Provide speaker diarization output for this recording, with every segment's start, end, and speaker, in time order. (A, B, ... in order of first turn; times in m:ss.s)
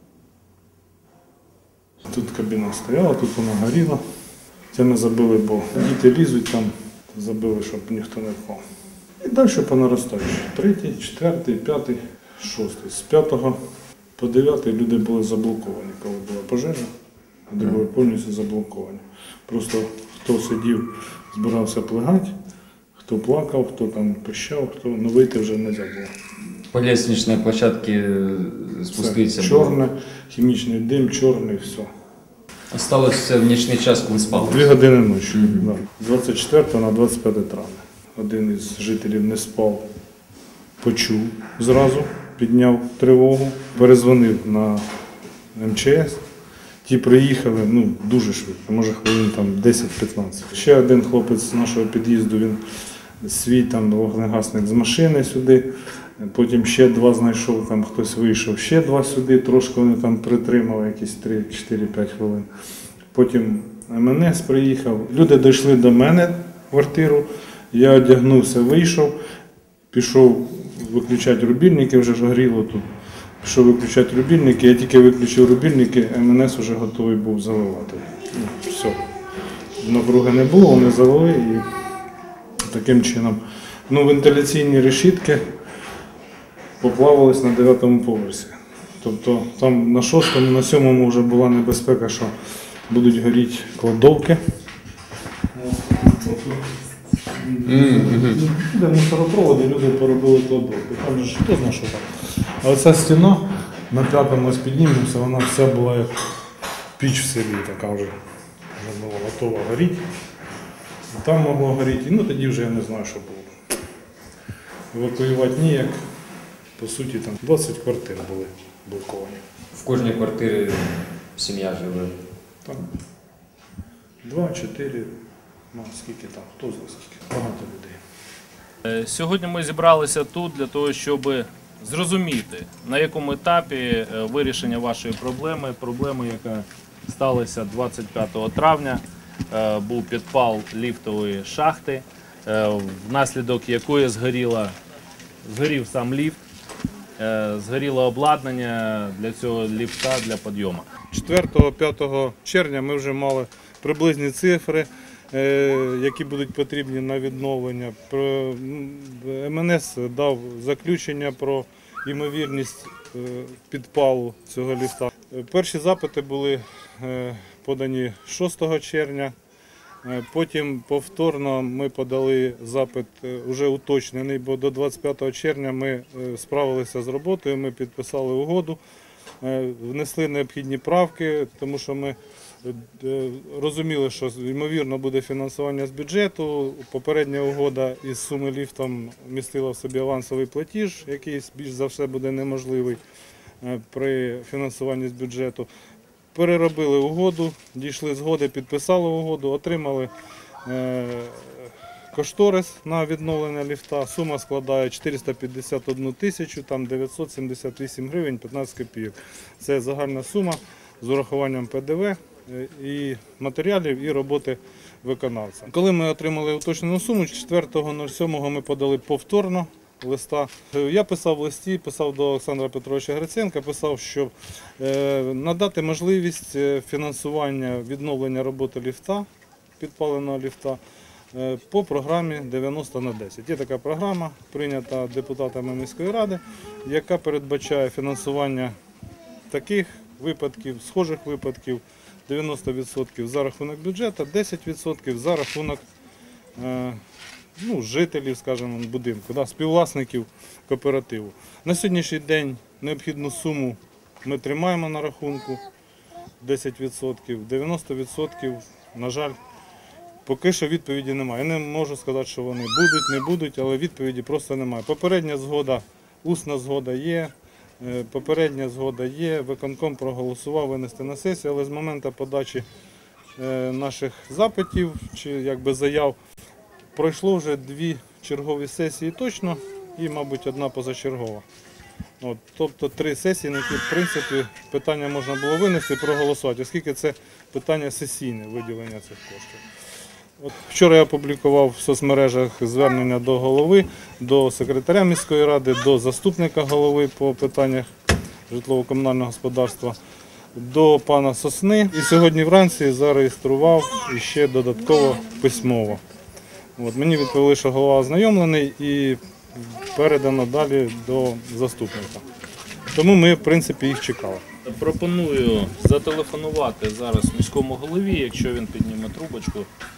0:02.1-0:04.0 A
0:04.7-0:08.6 A
0:09.2-0:13.6 A
0:14.2-0:16.9 A
0:17.5-0:22.3 A
0:23.0-0:26.1 A
0:26.7-0:29.8 B
0:29.0-0:31.9 A
0:32.7-0:34.7 B
0:34.3-0:39.8 A
0:35.3-0:35.7 B
0:40.8-0:44.9 A
0:45.6-0:46.2 A
0:46.8-0:52.6 A
0:53.2-0:55.7 A
0:56.2-1:02.5 A
1:03.1-1:09.2 A
1:09.9-1:12.9 A
1:13.4-1:19.0 A
1:19.8-1:21.7 A
1:22.6-1:25.4 A
1:26.8-1:32.3 A
1:32.9-1:34.4 A
1:35.5-1:36.6 A
1:37.3-1:46.2 A
1:37.7-1:38.4 B
1:47.0-1:48.1 A
1:48.8-1:50.0 A
1:51.1-1:53.5 A
1:54.9-1:56.0 A
1:56.8-1:59.4 A
1:59.7-2:02.1 B
2:04.2-2:05.2 A
2:05.7-2:08.0 A
2:08.8-2:24.7 C
2:25.4-2:26.4 C
2:27.2-2:30.9 C
2:31.1-2:49.3 A
2:50.0-2:58.8 A
2:59.4-3:13.0 A
3:13.6-3:15.7 A
3:16.3-3:20.1 A
3:20.7-3:49.3 A
3:49.8-3:50.8 A
3:51.3-3:58.8 A
3:59.5-4:05.8 A
4:06.6-4:07.0 A
4:07.6-4:15.6 A
4:16.4-4:19.4 A
4:20.3-4:32.7 A
4:33.4-4:36.2 A
4:36.9-4:41.4 A
4:42.2-4:49.6 A
4:50.4-4:57.9 A
4:58.5-5:00.0 A
5:00.6-5:06.0 A
5:06.8-5:12.2 A
5:12.9-5:14.4 A
5:14.6-5:19.7 C